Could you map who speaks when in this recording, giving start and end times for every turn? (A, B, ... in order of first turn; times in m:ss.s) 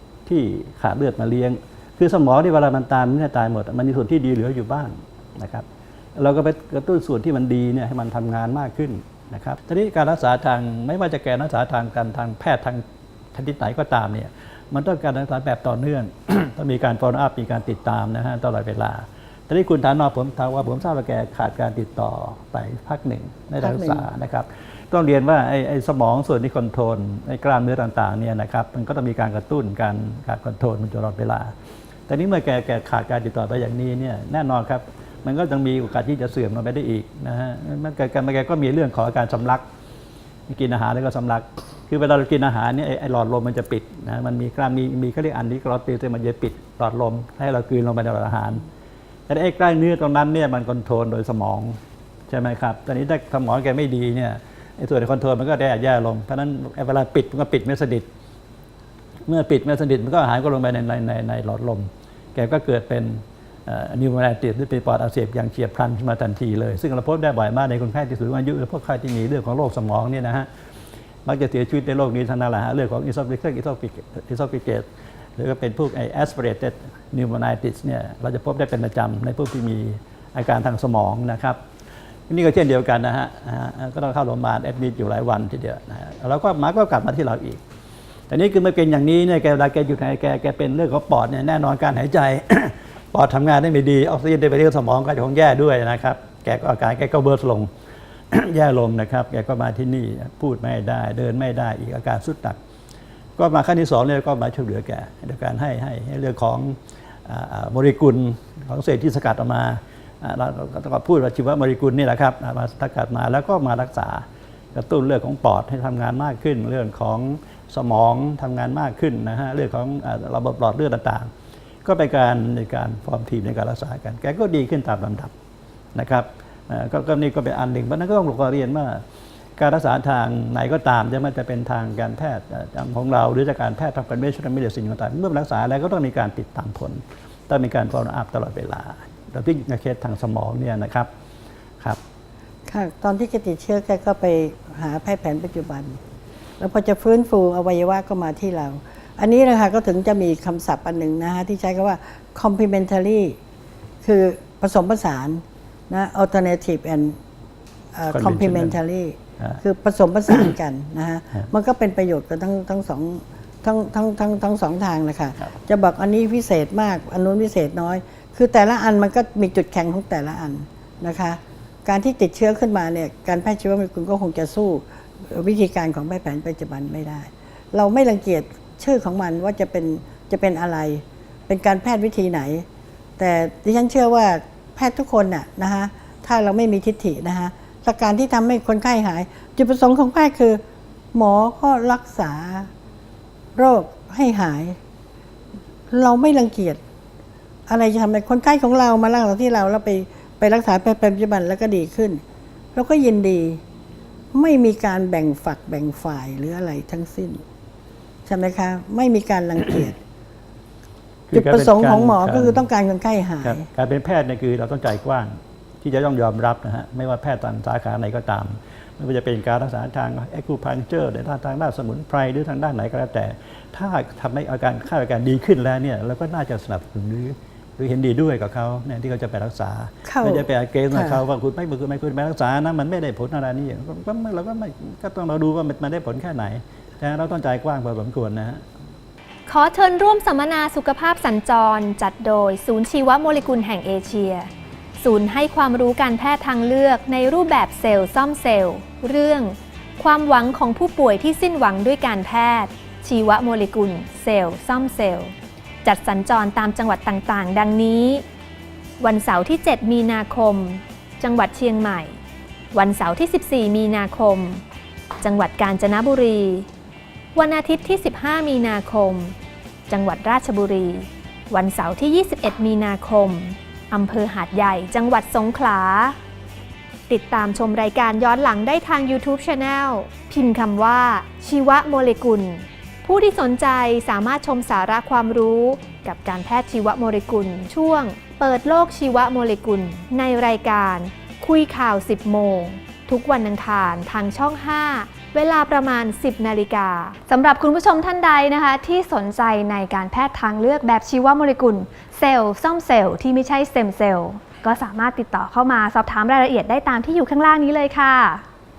0:00.2-0:31.5 A
0:23.6-0:24.0 B
0:32.1-0:39.6 A
0:40.5-0:48.6 A
0:49.3-0:51.8 A
0:52.3-0:58.1 A
0:59.3-1:10.5 A
1:11.2-1:14.8 A
1:15.4-1:21.6 A
1:22.3-1:27.6 A
1:28.3-1:37.7 A
1:38.3-1:42.6 A
1:43.4-2:01.3 A
2:01.8-2:05.3 A
2:05.9-2:09.0 A
2:09.6-2:21.1 A
2:22.7-2:26.0 B
2:26.6-2:33.4 B
2:34.0-2:37.2 B
2:37.9-3:02.6 B
2:38.1-2:38.8 A
3:03.2-3:10.6 B
3:11.1-3:12.7 B
3:13.5-3:14.8 B
3:15.9-3:16.8 B
3:17.7-3:22.2 B
3:22.7-3:23.6 B
3:24.3-3:27.4 B
3:28.2-3:30.0 B
3:31.3-3:32.6 A
3:31.3-3:33.6 B
3:33.4-3:58.6 A
3:50.0-3:51.2 B
3:59.5-4:15.3 C
4:15.8-4:18.2 C
4:19.0-4:22.2 C
4:22.7-4:24.6 C
4:25.2-4:26.7 C
4:27.3-4:29.3 C
4:29.9-4:36.2 C
4:37.1-4:57.1 C
4:57.3-5:08.4 D